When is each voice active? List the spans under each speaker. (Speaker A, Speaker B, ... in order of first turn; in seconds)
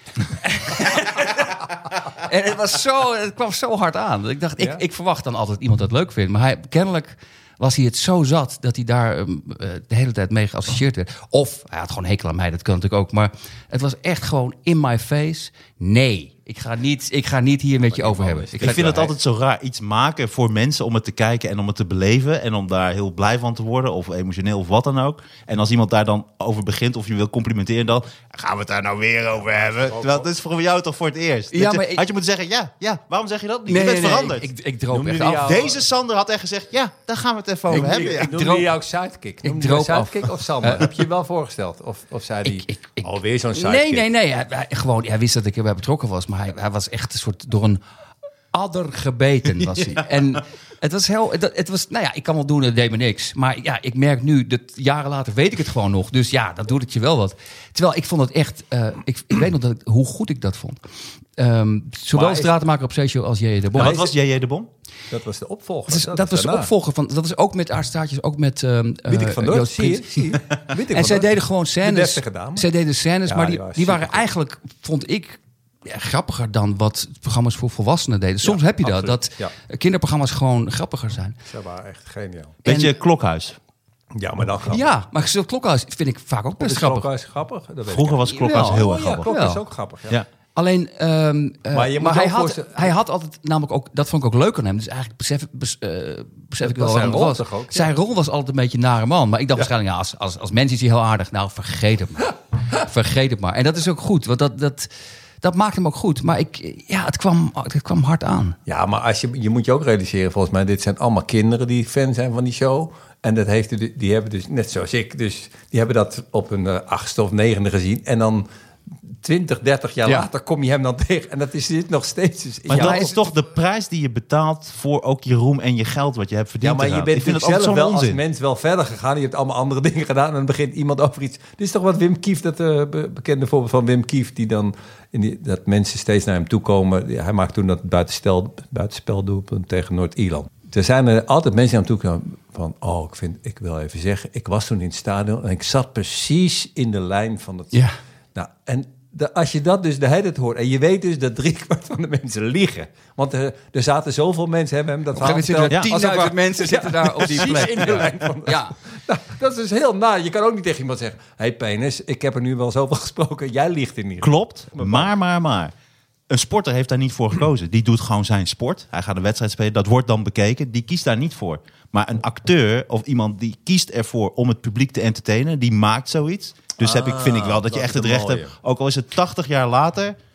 Speaker A: 0.3-19.1, 31.5-32.0, 33.7-35.6, 37.7-38.7, 39.4-40.9, 42.4-47.8, 48.5-60.8, 61.4-64.0, 65.9-70.4, 70.9-81.4, 82.6-82.9, 84.7-87.1, 88.3-89.6, 90.5-104.9, 105.4-108.6, 122.7-123.2, 155.2-158.8
Speaker B: 17.9-19.1, 29.7-30.3, 34.9-35.8, 37.7-44.1, 62.1-62.5, 63.8-64.1, 65.1-66.7, 69.1-72.7, 73.3-74.3, 78.4-79.5, 81.5-82.6, 84.1-84.9, 86.6-90.2, 91.7-92.9, 96.6-97.9, 108.7-118.5, 119.1-123.1, 126.6-147.8, 148.3-165.1, 176.8-178.5
Speaker C: 18.6-34.5, 35.4-38.3, 63.8-64.7, 82.6-83.6, 87.9-89.3, 122.7-128.2, 164.2-165.7, 166.3-180.2